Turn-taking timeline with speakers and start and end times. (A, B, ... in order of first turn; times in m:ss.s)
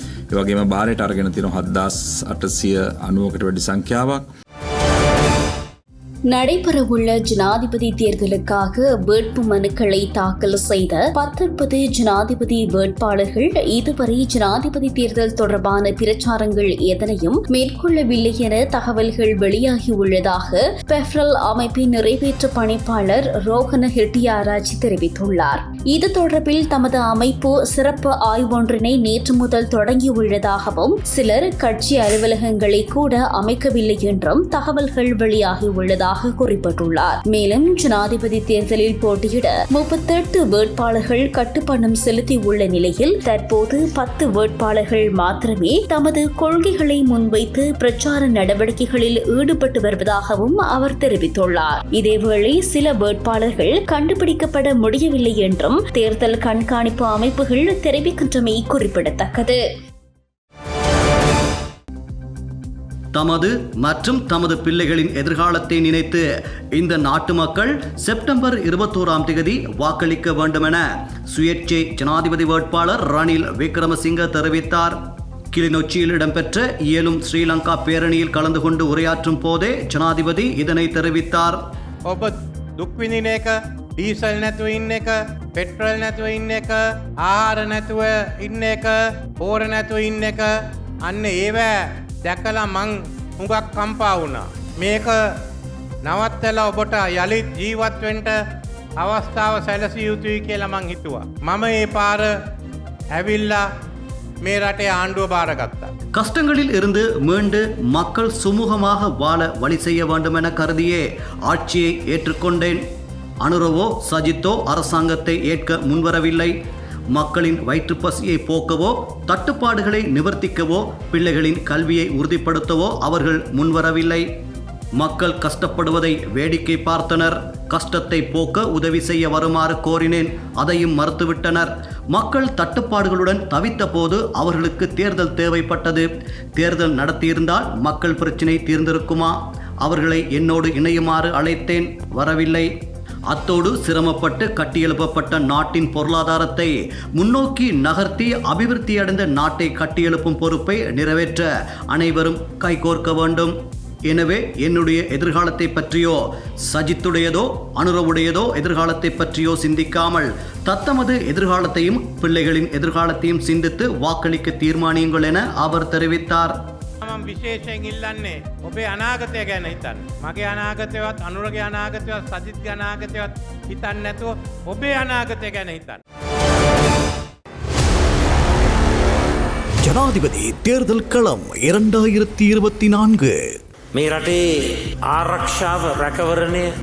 0:00.3-0:04.3 A
0:06.3-0:59.6 B
1:03.2-1:15.0 C
1:15.5-1:21.6 C
1:22.1-1:35.3 D
1:36.0-1:38.4 D
1:39.0-1:42.4 D
1:43.1-1:43.7 D
1:44.4-1:45.9 D
1:46.1-1:52.8 C
1:53.4-1:56.6 C
1:57.1-2:04.3 C
2:05.0-2:22.7 C
2:23.3-2:33.6 C
2:34.1-2:46.6 C
2:47.0-2:56.0 D
2:59.8-3:03.4 C
3:03.9-3:04.5 E
3:05.1-3:06.7 E